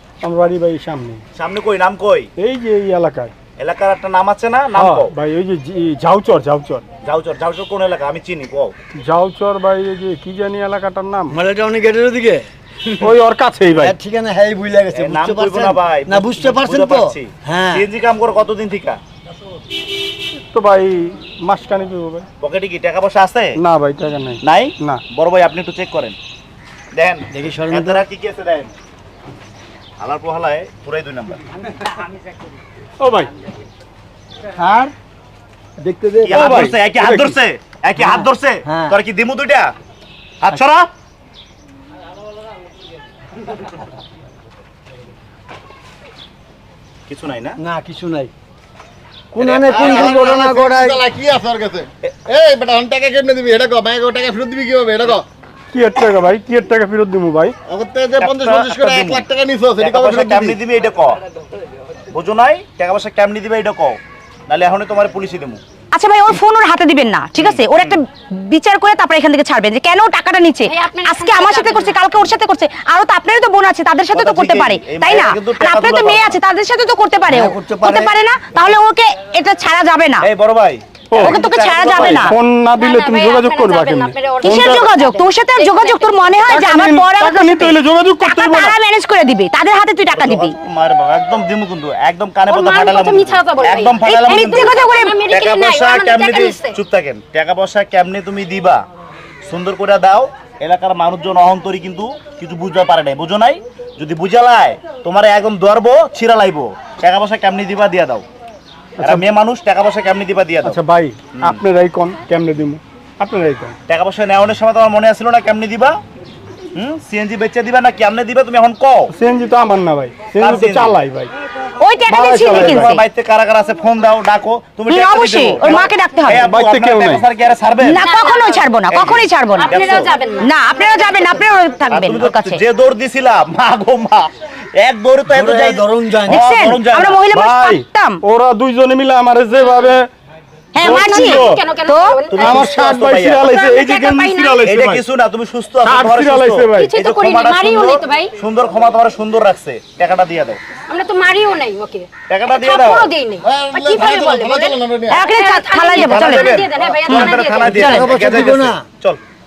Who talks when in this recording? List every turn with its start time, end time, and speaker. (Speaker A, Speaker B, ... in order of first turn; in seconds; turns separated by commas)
Speaker A: 0.2-1.2, Speaker B: 1.4-2.3, Speaker A: 2.4-3.3, Speaker B: 3.6-5.1, Speaker A: 4.7-6.8, Speaker B: 7.0-8.8, Speaker A: 8.9-11.4, Speaker C: 11.3-12.5, Speaker A: 13.0-13.9, Speaker C: 13.7-17.9, Speaker B: 14.9-19.0, Speaker A: 20.5-22.3, Speaker B: 22.4-23.6, Speaker A: 23.6-25.0, Speaker B: 24.4-26.2, Speaker B: 26.9-28.7, Speaker C: 27.3-28.0, Speaker B: 30.0-31.4, Speaker A: 33.0-33.3, Speaker C: 34.6-34.9, Speaker C: 35.8-36.5, Speaker B: 36.2-39.7, Speaker A: 36.3-37.4, Speaker C: 38.0-39.0, Speaker B: 40.4-40.9, Speaker B: 47.1-47.6, Speaker C: 47.6-48.3, Speaker C: 49.3-51.0, Speaker B: 49.4-50.2, Speaker D: 49.7-55.2, Speaker A: 55.7-57.6, Speaker D: 57.7-60.6, Speaker B: 58.2-59.3, Speaker B: 59.8-61.2, Speaker B: 62.1-65.6, Speaker E: 65.9-80.3, Speaker B: 67.4-68.0, Speaker F: 70.7-71.9, Speaker B: 74.1-76.4, Speaker C: 77.3-78.1, Speaker B: 80.2-82.4, Speaker A: 81.1-81.4, Speaker E: 81.1-82.4, Speaker A: 82.0-84.9, Speaker F: 82.7-86.6, Speaker E: 84.4-90.6, Speaker A: 86.5-88.8, Speaker B: 90.1-98.9, Speaker F: 92.5-96.8, Speaker E: 94.0-95.1, Speaker B: 99.5-108.2, Speaker A: 109.0-109.2, Speaker B: 109.0-110.8, Speaker A: 110.6-113.8, Speaker B: 111.3-111.6, Speaker B: 113.9-116.0, Speaker B: 116.8-119.1, Speaker A: 119.1-121.3, Speaker B: 120.4-121.0, Speaker E: 121.8-123.0, Speaker A: 122.1-123.0, Speaker B: 122.5-128.0, Speaker E: 124.9-126.5, Speaker A: 126.3-127.2, Speaker E: 127.8-129.8, Speaker F: 128.0-128.7, Speaker B: 128.9-130.1, Speaker F: 129.6-130.6, Speaker E: 130.4-132.6, Speaker B: 131.9-137.2, Speaker C: 135.3-136.4, Speaker E: 136.3-138.2, Speaker A: 137.3-140.1, Speaker E: 140.7-142.2, Speaker F: 140.8-142.7, Speaker A: 140.8-141.6, Speaker B: 142.3-143.5, Speaker A: 142.4-145.0, Speaker F: 143.4-144.6, Speaker B: 144.6-150.6, Speaker A: 145.8-146.9, Speaker F: 146.7-148.3, Speaker F: 150.9-158.0, Speaker B: 152.3-153.1, Speaker D: 153.4-155.2, Speaker E: 155.1-156.5, Speaker B: 155.9-159.2, Speaker E: 157.1-157.3, Speaker C: 157.6-158.9